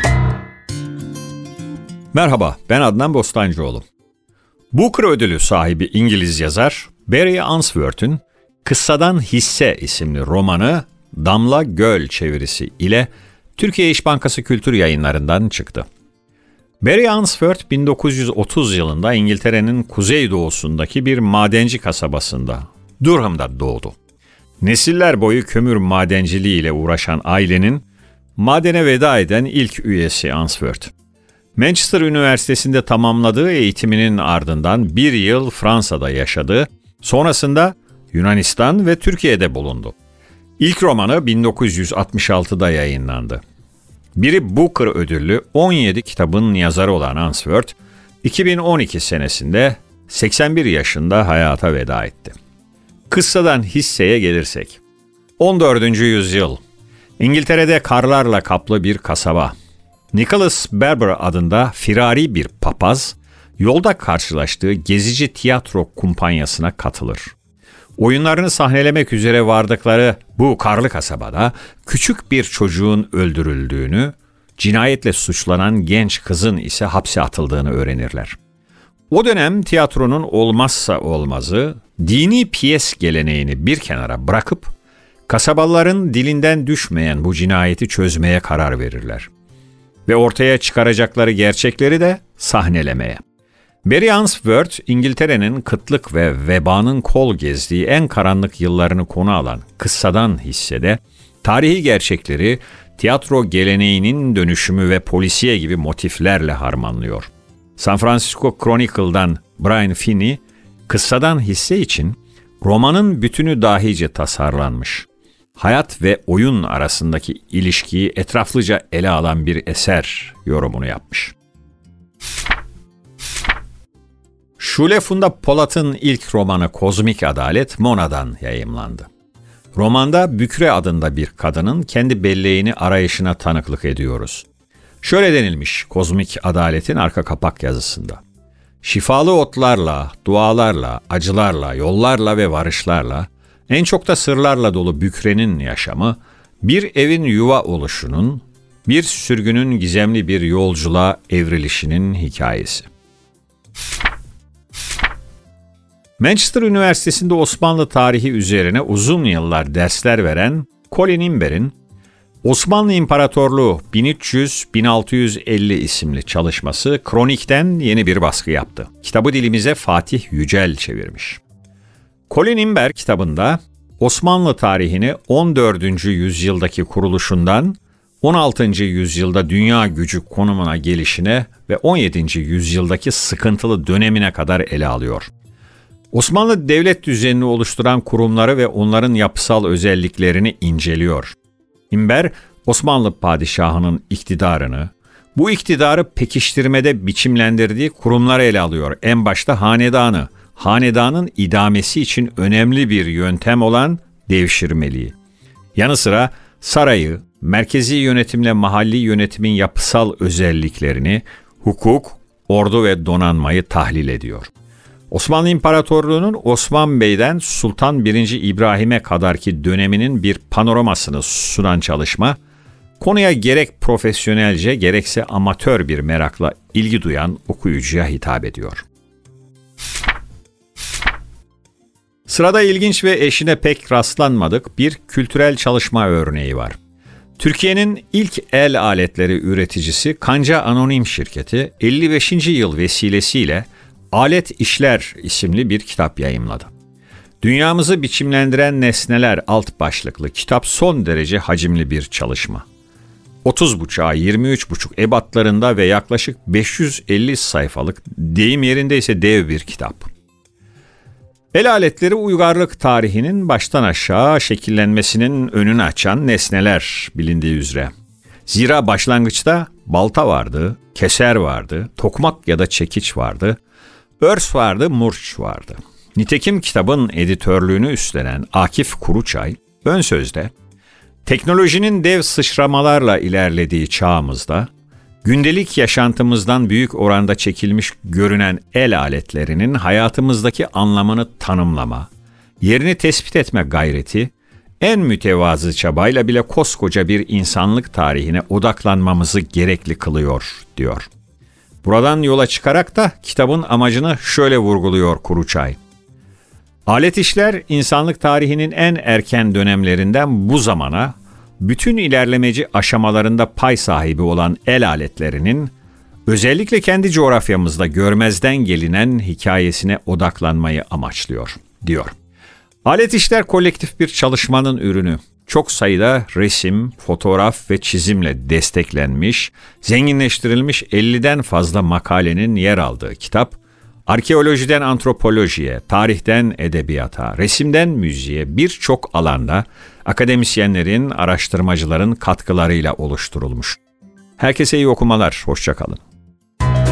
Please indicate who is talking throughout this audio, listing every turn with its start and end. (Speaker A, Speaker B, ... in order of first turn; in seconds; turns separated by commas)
Speaker A: 2.1-3.8, Speaker A: 4.7-15.9, Speaker A: 16.8-24.0, Speaker A: 24.6-27.9, Speaker A: 28.4-30.9, Speaker A: 31.6-40.0, Speaker A: 40.6-43.4, Speaker A: 44.1-52.3, Speaker A: 53.1-54.8, Speaker A: 55.4-56.6, Speaker A: 57.2-59.5, Speaker A: 60.1-67.3, Speaker A: 68.0-78.4, Speaker A: 79.1-84.7, Speaker A: 85.3-89.3, Speaker A: 90.0-93.2, Speaker A: 93.8-121.3, Speaker A: 124.6-129.1, Speaker A: 129.7-134.4, Speaker A: 135.0-138.2, Speaker A: 138.8-152.9, Speaker A: 156.2-161.7, Speaker A: 162.4-171.4, Speaker A: 172.3-185.3, Speaker A: 186.1-191.3, Speaker A: 191.9-205.1, Speaker A: 205.7-214.5, Speaker A: 215.1-222.4, Speaker A: 223.0-228.8, Speaker A: 232.3-236.8, Speaker A: 237.4-246.7, Speaker A: 247.4-252.7, Speaker A: 253.4-260.1, Speaker A: 261.5-267.9, Speaker A: 268.4-273.6, Speaker A: 274.2-280.5, Speaker A: 281.2-284.7, Speaker A: 285.2-292.1, Speaker A: 292.6-301.1, Speaker A: 301.8-305.8, Speaker A: 306.9-315.7, Speaker A: 316.3-322.1, Speaker A: 322.8-343.8, Speaker A: 344.4-346.0